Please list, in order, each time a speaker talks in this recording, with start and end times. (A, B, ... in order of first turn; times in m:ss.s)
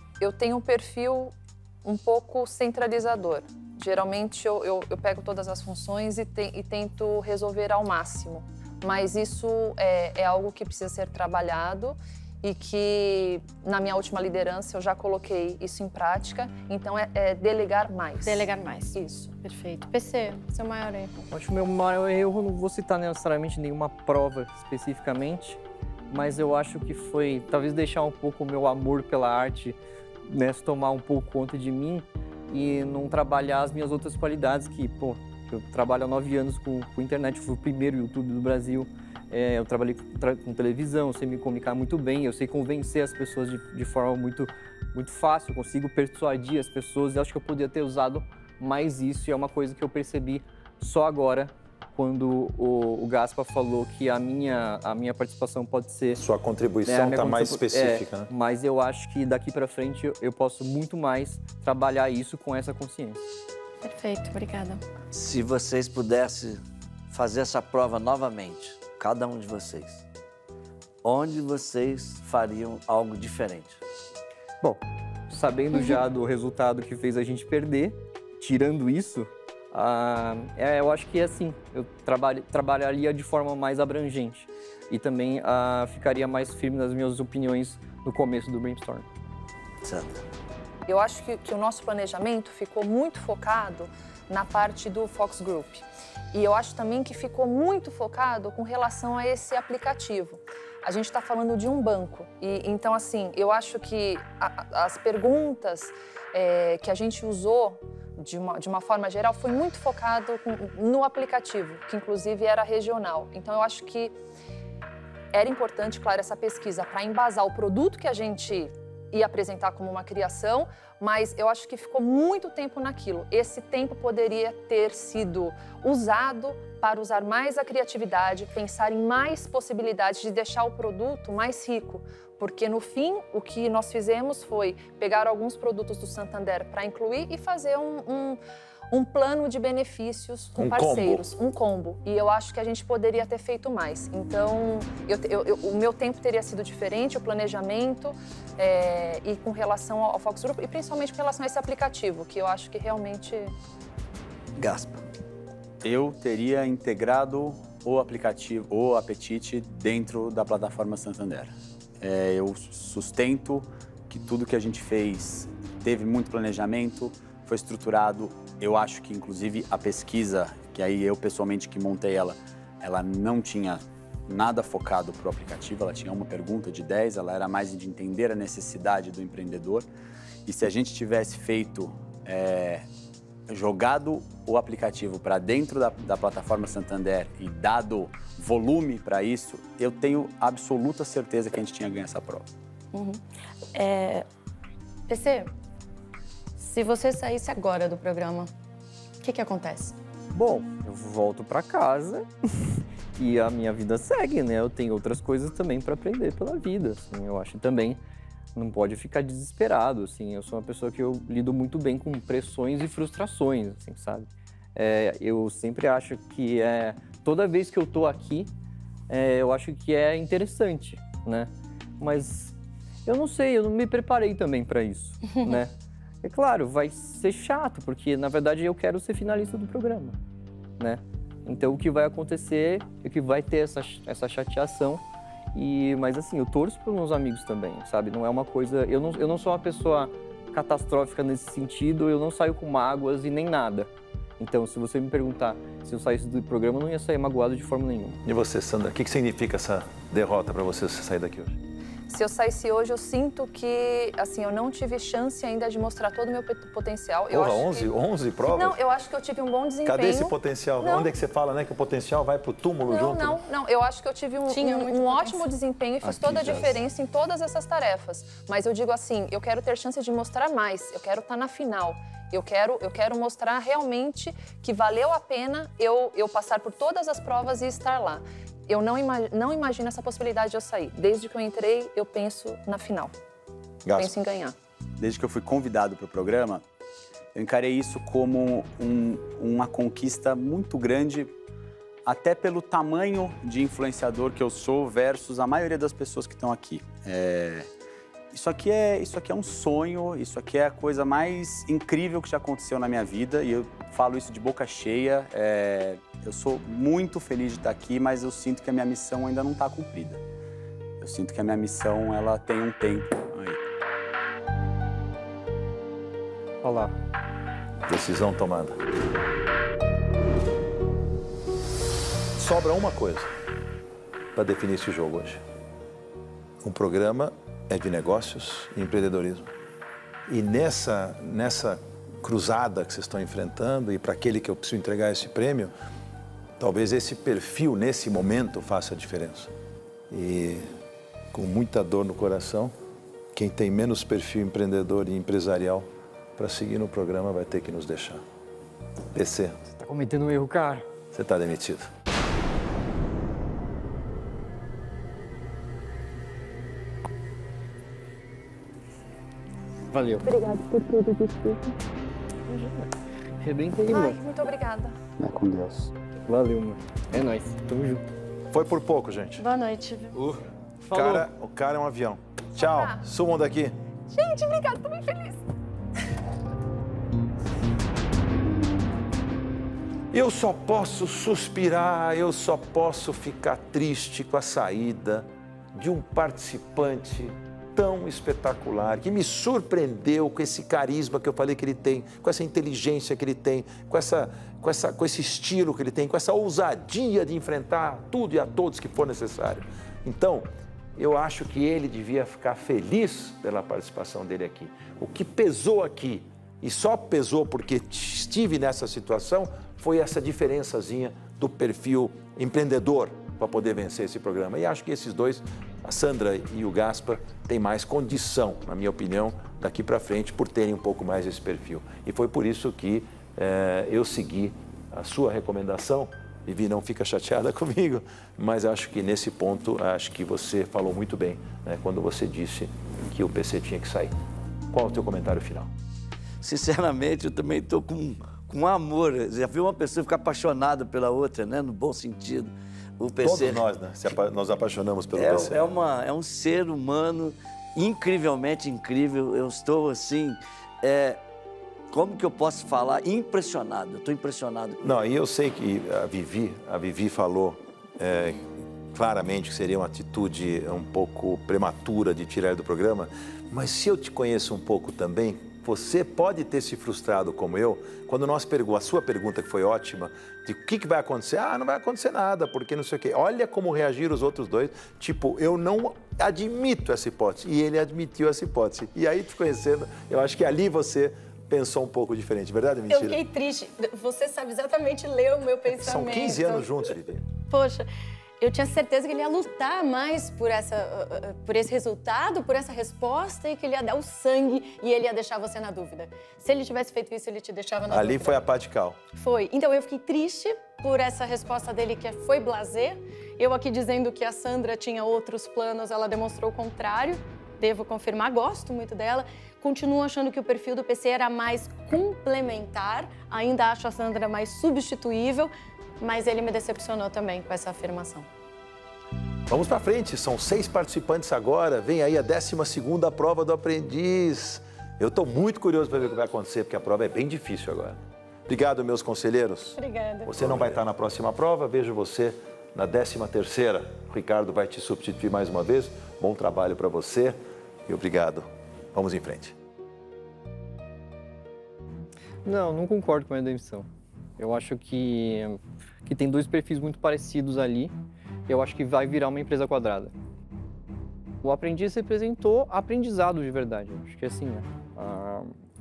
0:00.2-0:19.3 A
0:18.2-0:21.2 B
0:21.3-0:56.2 C
0:56.2-0:58.3 D
0:56.8-1:03.2 C
1:03.8-1:04.8 B
1:05.1-1:10.0 E
1:11.0-1:13.8 E
1:14.6-1:29.0 C
1:29.8-1:30.2 E
1:30.9-1:54.2 A
1:55.3-2:18.4 A
2:18.9-2:33.5 A
2:20.6-2:21.3 D
2:34.6-2:35.0 E
2:35.8-2:59.9 F
3:00.4-3:02.8 F
3:03.5-3:12.5 F
3:12.9-3:13.2 B
3:13.7-3:14.2 B
3:15.1-3:15.5 B
3:16.6-3:18.5 B
3:19.2-3:20.0 B
3:20.3-3:28.0 C
3:28.6-3:38.5 C
3:39.1-3:42.5 C
3:43.0-3:45.7 C
3:46.2-3:50.1 C
3:50.8-3:55.0 C
3:55.5-4:08.2 C
4:08.2-4:11.6 D
4:12.1-4:17.9 A
4:17.3-4:18.8 D
4:18.5-4:21.1 A
4:19.8-4:23.4 D
4:22.9-4:43.1 A
4:24.5-4:25.5 B
4:26.0-4:26.8 E
4:43.8-4:44.1 D
4:43.9-4:44.5 A
4:45.0-4:46.6 F
4:47.3-4:51.3 F
4:52.0-4:57.7 F
4:58.3-5:10.2 F
5:11.0-5:13.6 F
5:16.6-5:16.9 C
5:17.9-5:18.8 D
5:22.4-5:23.3 D
5:24.3-5:25.4 D
5:26.6-5:29.5 D
5:30.3-5:35.7 D
5:36.6-5:39.5 D
5:40.1-5:40.7 D
5:41.3-5:42.7 D
5:43.3-5:48.2 D
5:49.1-5:49.6 D
5:49.8-5:50.8 C
5:51.1-5:51.9 D
5:59.9-6:00.3 C
6:00.2-6:01.7 A
6:02.5-6:02.9 C
6:03.4-6:04.2 C
6:03.9-6:05.0 A
6:06.2-6:08.0 C
6:08.5-6:09.4 D
6:09.4-6:10.2 B
6:10.2-6:11.3 C
6:10.9-6:13.7 D
6:12.6-6:13.0 A
6:14.1-6:15.4 A
6:20.1-7:14.1 D
7:14.7-7:15.7 D
7:16.4-7:23.7 E
7:23.2-7:25.6 D
7:25.1-7:31.2 E
7:31.9-7:34.8 E
7:34.8-8:03.2 D
8:02.9-8:06.7 B
8:05.8-8:07.2 D
8:07.5-8:07.9 B
8:08.4-8:18.4 B
8:17.9-8:19.0 D
8:19.2-8:38.3 B
8:39.5-8:59.5 D
8:49.8-8:50.6 B
9:02.4-9:03.9 C
9:04.4-9:07.9 C
9:08.5-9:10.1 C
9:11.4-9:15.5 C